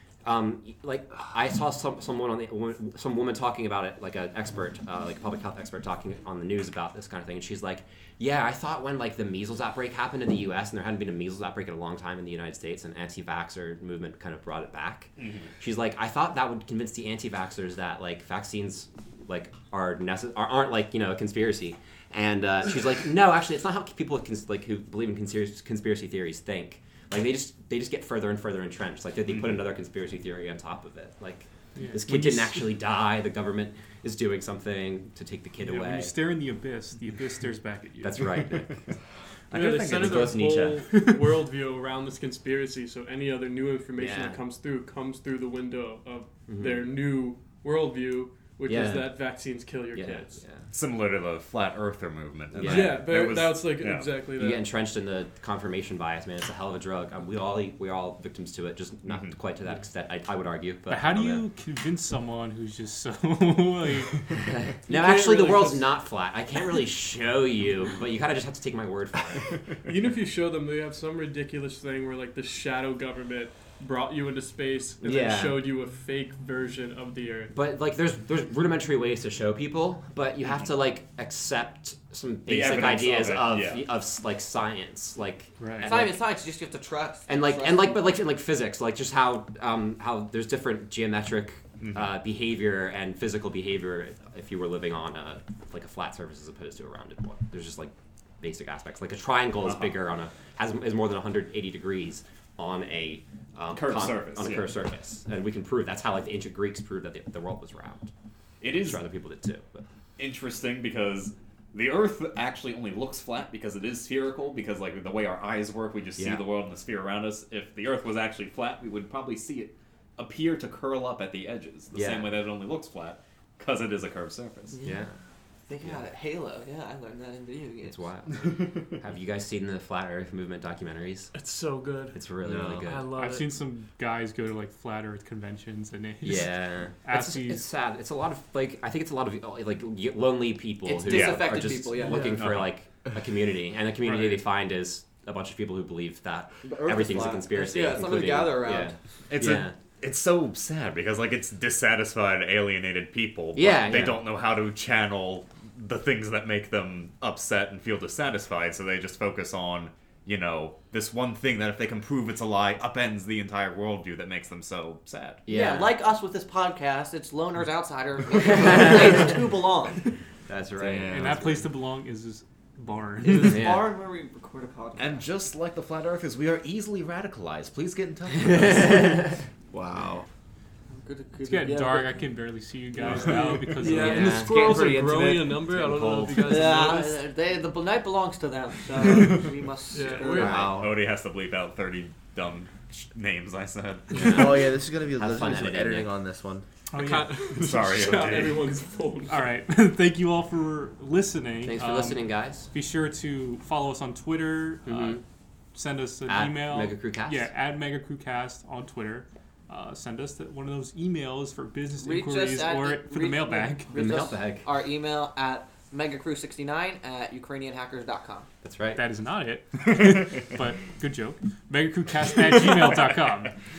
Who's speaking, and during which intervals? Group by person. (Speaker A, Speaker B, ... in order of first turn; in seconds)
Speaker A: 0.2-36.1, 38.0-38.8, 39.9-40.2, 44.0-44.4, 46.5-46.9, 48.6-49.2, 49.9-50.7, 52.5-53.0, 54.4-61.5, 64.5-69.6, 75.0-75.5, 77.5-86.2, 87.3-108.1, 108.7-109.8, 116.2-116.4, 121.9-122.3, 124.8-125.1, 127.8-131.3, 132.1-133.1, 136.2-149.8, 153.5-154.2, 165.4-166.0, 168.6-169.4, 170.4-171.6, 173.4-173.9, 178.3-179.4, 183.8-184.5, 194.1-196.1, 201.6-202.7, 204.8-205.2, 206.3-207.5, 213.9-214.7, 218.6-219.0
Speaker B: 15.2-15.5, 29.3-29.6, 39.5-40.8, 50.7-54.2, 59.1-59.3, 82.5-83.9, 91.8-92.1, 99.6-100.0, 103.7-104.7, 108.6-109.0, 110.2-124.8, 141.0-142.7, 149.3-165.4, 175.0-179.2, 185.7-186.6, 189.0-189.3, 190.2-194.5, 197.4-198.8
Speaker C: 31.8-32.7, 35.6-38.5, 60.9-64.2, 85.6-85.9, 133.2-137.6, 144.0-144.4, 171.1-173.7, 181.4-184.3, 196.9-197.3, 199.3-205.2, 205.7-214.0, 218.9-223.5
Speaker D: 39.5-50.4, 52.6-54.7, 64.9-65.8, 69.8-77.5, 131.3-133.6, 183.1-187.2, 189.9-190.7, 196.9-199.5
Speaker E: 85.8-88.1, 124.8-125.0, 125.7-128.0, 140.8-142.5, 146.6-148.9, 165.5-170.1, 173.2-175.3, 180.9-182.1, 186.5-190.7, 212.0-218.5
Speaker F: 132.4-132.9, 170.8-171.6, 179.7-180.2, 184.1-185.9, 190.4-191.0, 194.2-196.6